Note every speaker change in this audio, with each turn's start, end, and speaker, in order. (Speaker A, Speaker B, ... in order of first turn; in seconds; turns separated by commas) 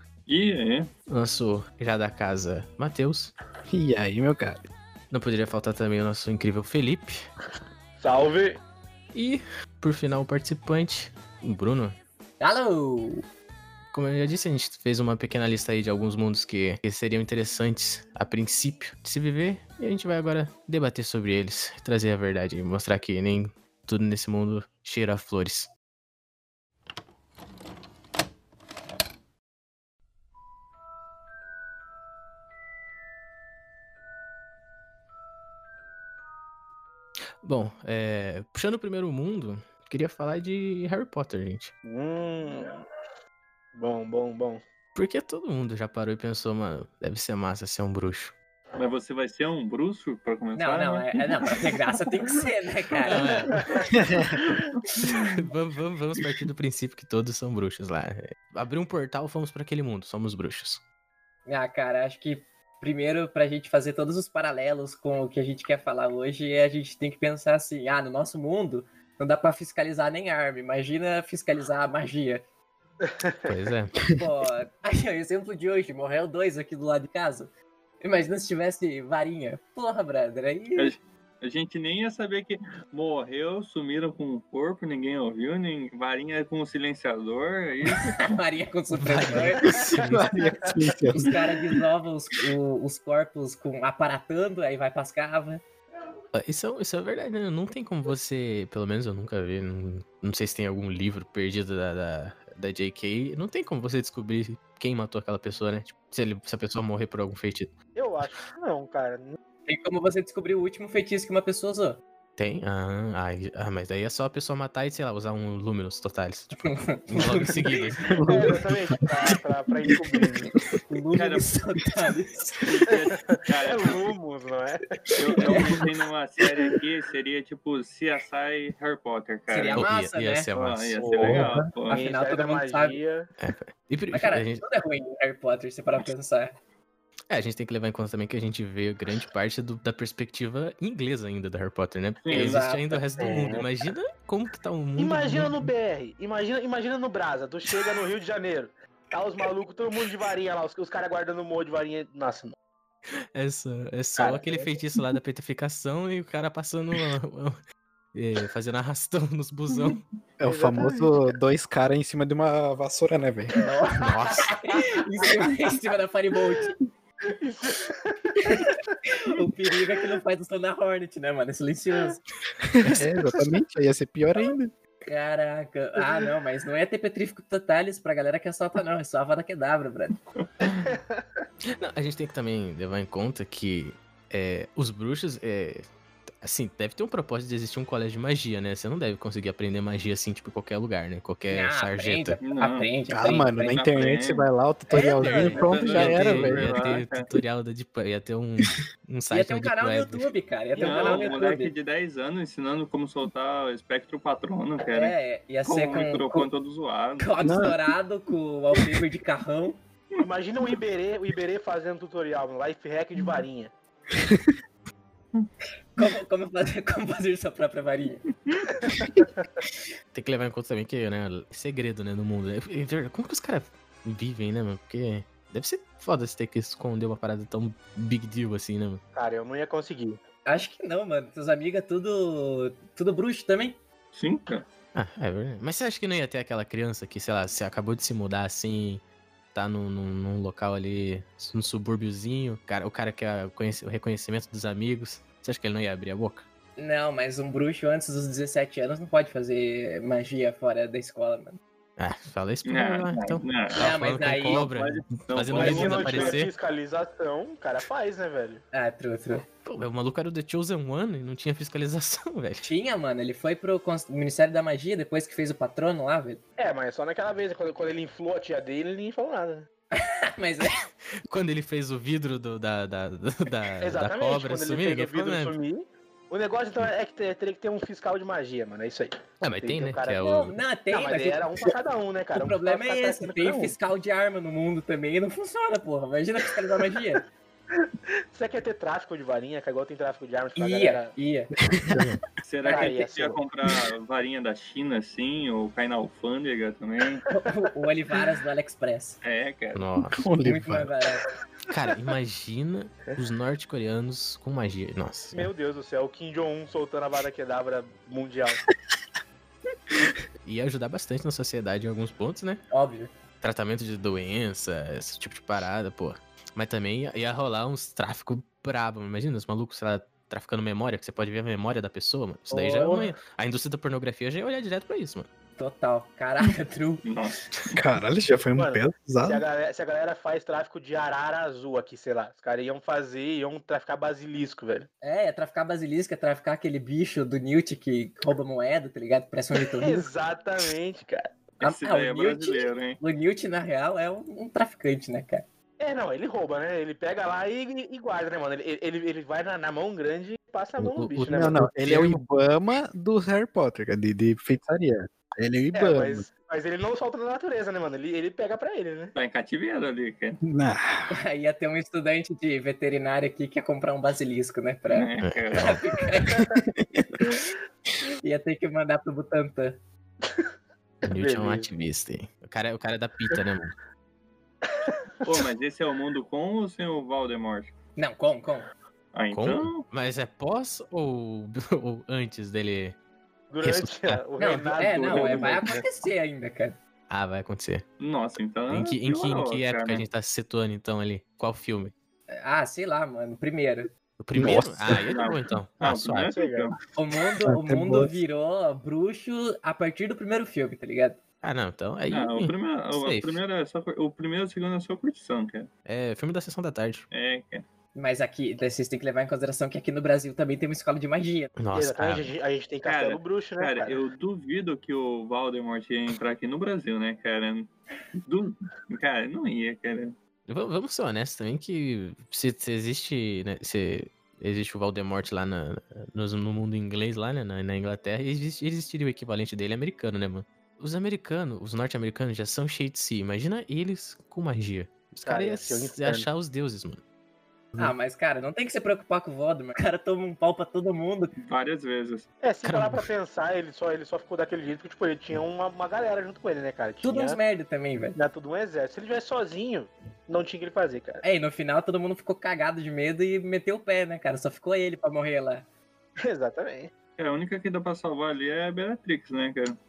Speaker A: 0.3-0.9, Speaker B: 1.1-3.3, Speaker C: 3.7-4.6, Speaker B: 5.1-7.3, Speaker D: 8.0-8.6, Speaker B: 9.1-12.0, Speaker E: 12.4-13.2, Speaker B: 13.9-25.7, Speaker B: 37.4-41.7, Speaker D: 41.9-42.8, Speaker D: 43.8-44.6, Speaker B: 45.0-48.3, Speaker A: 48.8-51.7, Speaker E: 50.6-53.6, Speaker B: 53.1-53.9, Speaker C: 54.0-54.4, Speaker B: 55.0-60.8, Speaker E: 61.5-72.4, Speaker D: 73.0-73.6, Speaker B: 73.5-74.0, Speaker E: 74.1-77.5, Speaker E: 78.0-81.0, Speaker A: 80.8-88.3, Speaker E: 88.2-89.7, Speaker B: 88.9-90.4, Speaker C: 89.6-91.3, Speaker E: 91.1-95.6, Speaker B: 96.3-107.7, Speaker D: 108.0-109.4, Speaker E: 109.7-112.0, Speaker B: 112.4-118.2, Speaker E: 116.6-118.4, Speaker C: 118.0-120.7, Speaker D: 118.3-120.6, Speaker E: 120.9-122.6, Speaker A: 121.1-121.6, Speaker A: 122.6-124.1, Speaker D: 122.9-125.8, Speaker A: 125.2-129.9, Speaker E: 125.4-125.8, Speaker E: 129.5-130.5, Speaker B: 129.7-131.6, Speaker A: 130.5-132.0, Speaker D: 131.0-133.3, Speaker C: 131.3-131.7, Speaker E: 131.7-133.0, Speaker B: 133.4-134.7, Speaker E: 134.1-136.5, Speaker B: 137.3-145.7, Speaker A: 142.2-142.6, Speaker E: 142.3-143.0, Speaker D: 143.2-143.7, Speaker D: 145.0-152.6, Speaker B: 153.3-157.6, Speaker D: 154.2-154.7, Speaker B: 158.1-160.0, Speaker C: 160.4-163.6, Speaker D: 160.4-161.3, Speaker E: 163.6-166.8, Speaker B: 164.0-164.6, Speaker D: 164.3-165.0, Speaker D: 167.3-168.9, Speaker E: 168.4-172.2, Speaker C: 172.6-174.7, Speaker E: 175.1-180.2, Speaker D: 180.6-181.2, Speaker B: 181.8-185.9, Speaker B: 186.4-192.4, Speaker E: 191.5-193.8, Speaker A: 192.4-192.9, Speaker C: 193.1-196.8, Speaker A: 193.6-194.5, Speaker E: 194.9-196.1, Speaker B: 195.2-200.3, Speaker A: 195.5-197.3, Speaker E: 199.3-201.7, Speaker D: 200.7-201.4, Speaker A: 200.8-207.4, Speaker E: 204.8-206.5, Speaker E: 207.2-209.8, Speaker C: 207.4-207.8, Speaker D: 210.2-213.7, Speaker C: 214.1-214.5, Speaker E: 216.0-218.2, Speaker B: 220.1-229.0, Speaker D: 229.1-230.2, Speaker E: 230.5-233.8, Speaker A: 234.1-234.7, Speaker B: 234.9-239.0, Speaker B: 239.5-246.5, Speaker E: 246.8-251.6, Speaker B: 252.0-256.5, Speaker A: 252.7-253.8, Speaker E: 253.8-254.7, Speaker A: 254.5-256.4, Speaker D: 255.5-258.6, Speaker E: 258.7-259.4, Speaker B: 259.6-262.7, Speaker E: 262.6-266.4, Speaker D: 266.6-269.7, Speaker E: 269.9-270.8, Speaker B: 270.7-275.6, Speaker D: 273.8-280.2, Speaker B: 279.4-280.6, Speaker E: 280.2-281.5, Speaker D: 280.9-283.8, Speaker E: 282.4-287.2, Speaker D: 287.8-291.1, Speaker E: 290.6-291.5, Speaker C: 291.7-292.2, Speaker B: 291.9-292.2, Speaker A: 292.4-297.3, Speaker D: 292.6-293.4, Speaker E: 292.7-293.0, Speaker E: 297.3-299.2, Speaker A: 299.2-299.8, Speaker B: 299.7-300.2, Speaker C: 300.2-300.9, Speaker E: 300.4-301.2, Speaker B: 301.7-305.5, Speaker D: 305.3-308.6, Speaker B: 310.4-312.6, Speaker E: 312.7-313.1, Speaker B: 313.4-325.3, Speaker D: 322.5-323.0, Speaker E: 325.6-327.1, Speaker A: 327.0-327.8, Speaker C: 327.7-329.4, Speaker D: 328.6-334.9, Speaker E: 335.0-340.1, Speaker D: 339.7-341.3, Speaker A: 341.6-343.0, Speaker E: 341.6-345.4, Speaker D: 345.8-351.7, Speaker C: 350.9-356.3, Speaker B: 350.9-352.2, Speaker D: 355.8-359.1, Speaker A: 359.1-360.4, Speaker C: 360.4-361.1, Speaker E: 361.1-366.5, Speaker A: 364.9-365.8, Speaker B: 365.2-365.8, Speaker D: 366.3-366.6, Speaker C: 366.9-367.2, Speaker E: 368.2-369.8, Speaker D: 371.0-371.7, Speaker B: 371.0-373.7, Speaker A: 375.2-377.7, Speaker E: 378.0-378.7, Speaker A: 379.1-379.8, Speaker B: 379.3-383.0, Speaker D: 383.5-385.8, Speaker B: 383.6-384.2, Speaker E: 384.4-386.8, Speaker A: 385.1-385.5, Speaker B: 387.1-387.9, Speaker A: 388.0-390.1, Speaker B: 388.7-391.9, Speaker E: 392.3-393.9, Speaker B: 394.2-396.3, Speaker C: 394.4-395.1, Speaker A: 395.1-396.8, Speaker D: 396.2-396.8, Speaker E: 397.0-401.2, Speaker C: 397.4-398.1, Speaker B: 401.4-403.4, Speaker A: 402.1-405.7, Speaker B: 405.9-407.1, Speaker A: 407.1-407.6, Speaker E: 407.9-411.5, Speaker B: 411.6-412.3, Speaker D: 411.7-414.0, Speaker A: 412.8-417.7, Speaker A: 418.2-420.1, Speaker B: 420.5-437.0, Speaker D: 435.2-436.3, Speaker E: 437.8-441.3, Speaker A: 441.4-442.3, Speaker D: 442.4-447.4, Speaker B: 442.6-443.1, Speaker E: 447.0-448.2, Speaker D: 448.1-451.2, Speaker E: 451.2-455.7, Speaker D: 456.2-456.9, Speaker A: 457.2-459.8